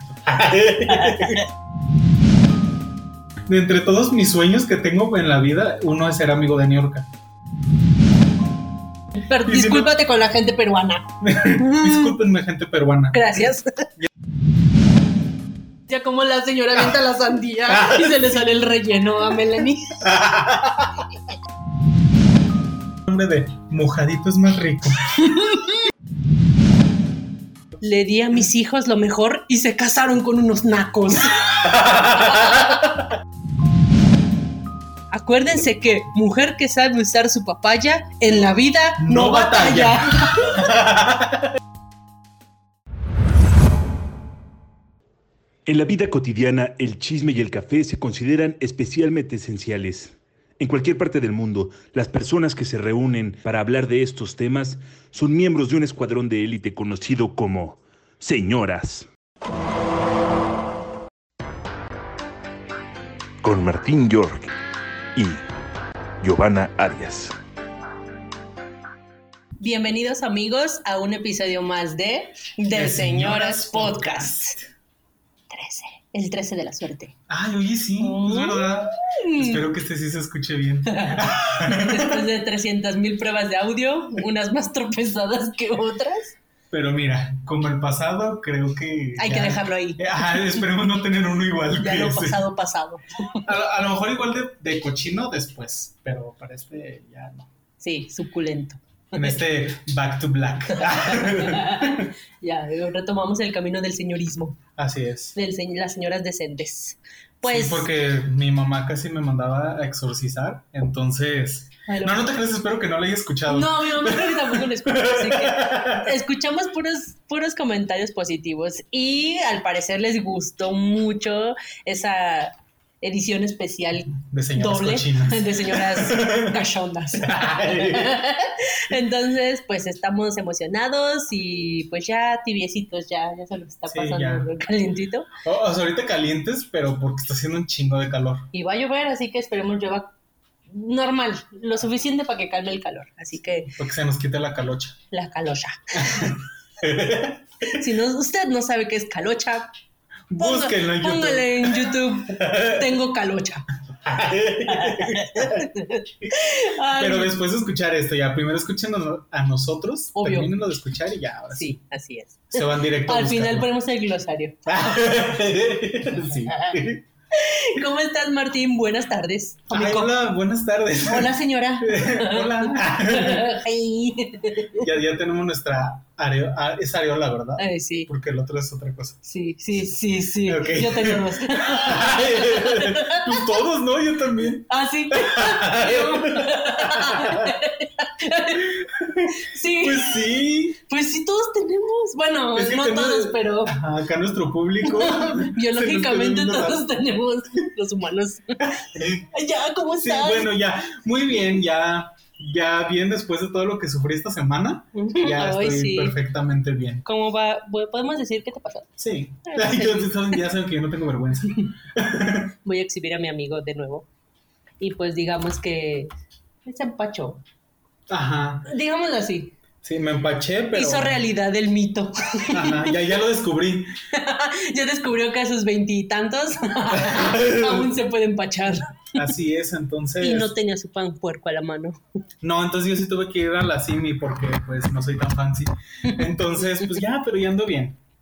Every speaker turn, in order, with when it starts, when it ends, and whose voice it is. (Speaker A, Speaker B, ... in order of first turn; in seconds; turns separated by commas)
Speaker A: 0.2-1.4, Speaker B: 0.9-1.4, Speaker A: 3.5-7.1, Speaker B: 9.2-12.2, Speaker A: 9.4-9.9, Speaker A: 11.2-14.1, Speaker B: 13.1-13.8, Speaker B: 15.9-19.9, Speaker A: 17.7-18.3, Speaker A: 20.0-21.1, Speaker A: 23.1-25.2, Speaker B: 25.2-25.8, Speaker B: 27.8-31.6, Speaker A: 31.5-32.9, Speaker B: 32.4-32.7, Speaker B: 35.1-40.7, Speaker A: 39.0-41.5, Speaker C: 45.6-59.1, Speaker C: 63.4-64.5, Speaker C: 65.2-65.4, Speaker C: 66.2-67.3, Speaker B: 69.6-74.6, Speaker A: 72.7-74.6, Speaker B: 75.5-77.1, Speaker A: 77.3-82.2, Speaker B: 78.0-79.7, Speaker B: 80.9-86.3, Speaker A: 86.7-92.4, Speaker B: 89.2-90.6, Speaker B: 91.8-93.4, Speaker A: 93.4-97.5, Speaker B: 97.8-99.4, Speaker A: 99.1-102.1, Speaker B: 100.7-104.6, Speaker A: 104.8-105.3, Speaker B: 105.3-107.9, Speaker A: 107.4-116.1, Speaker B: 111.9-112.2, Speaker B: 113.5-135.3, Speaker A: 124.1-126.6, Speaker A: 127.2-128.2, Speaker A: 133.9-134.5, Speaker A: 135.4-138.5, Speaker B: 138.5-140.1, Speaker B: 140.7-143.7, Speaker A: 143.8-145.0, Speaker B: 145.1-146.2, Speaker A: 145.9-147.8, Speaker B: 147.7-149.7, Speaker A: 150.3-152.9, Speaker B: 150.4-153.7, Speaker A: 154.0-155.7, Speaker B: 154.7-157.4, Speaker A: 156.9-161.8, Speaker B: 160.1-160.5, Speaker B: 161.5-164.6, Speaker A: 162.5-163.7, Speaker A: 164.7-167.0, Speaker B: 166.5-166.7, Speaker B: 167.3-170.2, Speaker A: 169.7-173.5, Speaker B: 171.0-174.8, Speaker A: 174.8-179.2, Speaker B: 177.6-178.1, Speaker B: 179.2-183.6, Speaker A: 180.4-187.6, Speaker B: 184.7-188.7, Speaker A: 188.6-190.8, Speaker B: 189.3-193.8, Speaker A: 192.5-196.8, Speaker B: 194.8-198.6, Speaker A: 198.6-199.3, Speaker B: 199.3-200.5, Speaker A: 200.0-207.0, Speaker B: 204.9-206.2, Speaker B: 207.0-208.9, Speaker A: 209.0-212.5, Speaker B: 209.5-210.4, Speaker B: 212.6-214.1, Speaker B: 214.8-216.1, Speaker B: 216.7-217.4, Speaker A: 218.1-218.7, Speaker B: 218.7-219.6, Speaker A: 219.8-221.2, Speaker B: 220.7-222.9, Speaker A: 222.5-223.9, Speaker B: 224.1-229.2, Speaker A: 226.9-227.9, Speaker A: 229.1-230.5, Speaker B: 230.2-232.0, Speaker A: 232.4-238.0